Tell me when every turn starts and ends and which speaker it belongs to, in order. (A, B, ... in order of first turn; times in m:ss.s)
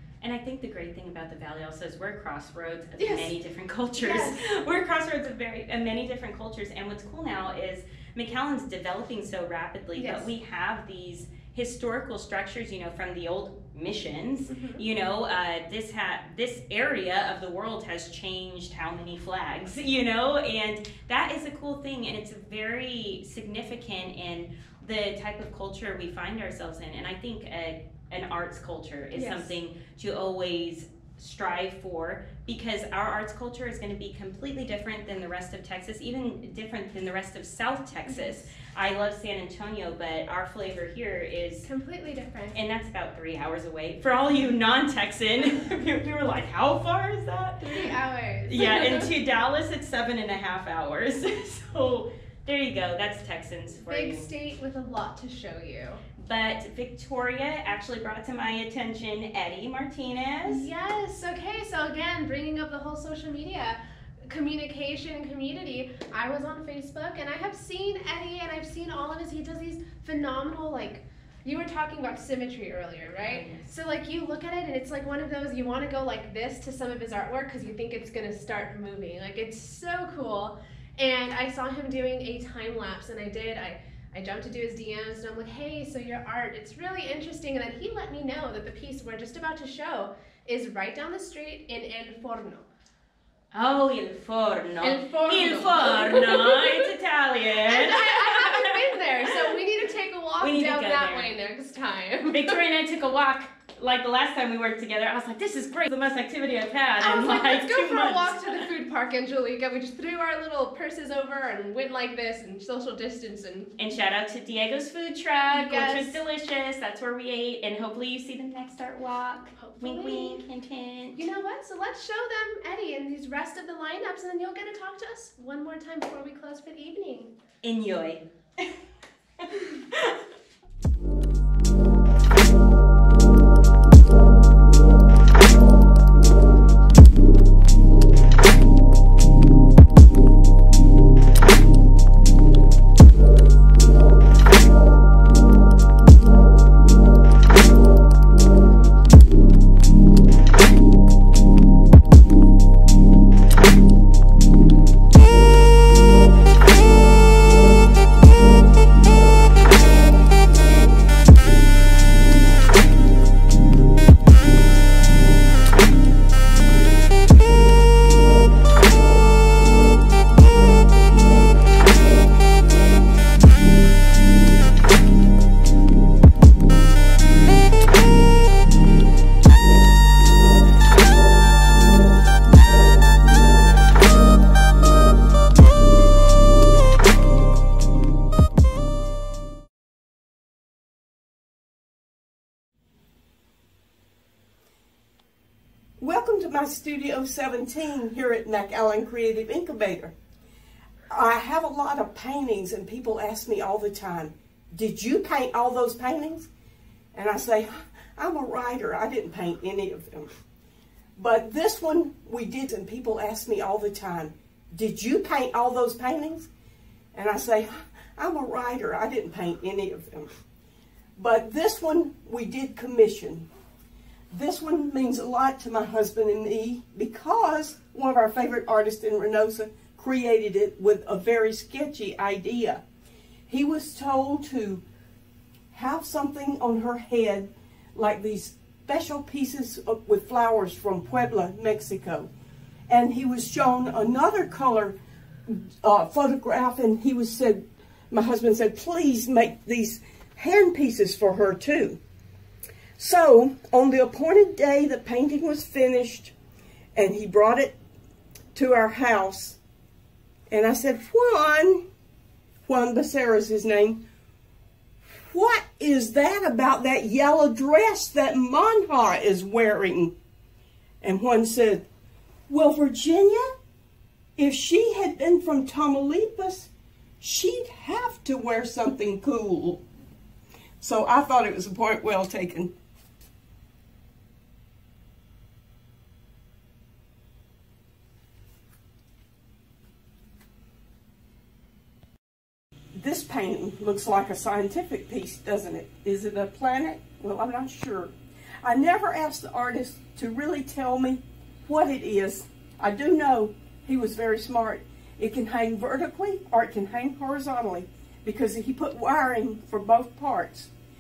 0:00.2-0:41.7 A
0:03.0-0:03.3 B
0:04.0-0:04.4 B
0:10.0-0:10.3 B
0:14.5-0:14.8 B
0:29.1-0:29.6 B
0:38.1-0:38.5 B
0:41.6-0:42.6 B
0:42.5-0:47.8 A
0:47.6-0:49.1 B
0:48.5-0:54.3 A
0:53.8-0:56.0 B
0:56.2-1:00.6 A
1:00.4-1:32.7 B
1:13.2-1:13.6 A
1:33.5-1:39.5 A
1:34.8-1:36.9 B
1:37.6-1:42.6 B
1:40.4-1:41.3 A
1:42.3-1:48.6 A
1:47.0-1:53.7 B
1:53.8-2:01.2 A
1:55.5-1:56.2 B
1:59.6-2:00.4 B
2:01.1-2:07.3 B
2:07.6-2:08.2 A
2:09.4-2:10.1 A
3:16.0-3:20.1 C
3:21.1-3:26.5 C
3:27.1-3:30.3 C
3:31.2-3:36.5 C
3:37.1-3:40.3 C
3:41.2-3:43.5 C
3:44.3-3:52.8 C
3:53.5-3:54.8 C
3:55.7-4:02.3 C
4:02.9-4:04.9 C
4:05.5-4:12.0 C
4:13.0-4:16.3 C
4:17.0-4:17.7 C
4:18.5-4:19.6 C
4:20.5-4:21.8 C
4:22.7-4:24.0 C
4:25.1-4:30.1 C
4:31.0-4:31.8 C
4:32.5-4:33.5 C
4:34.4-4:36.7 C
4:37.2-4:39.8 C
4:40.8-4:42.7 C
4:53.0-5:10.7 C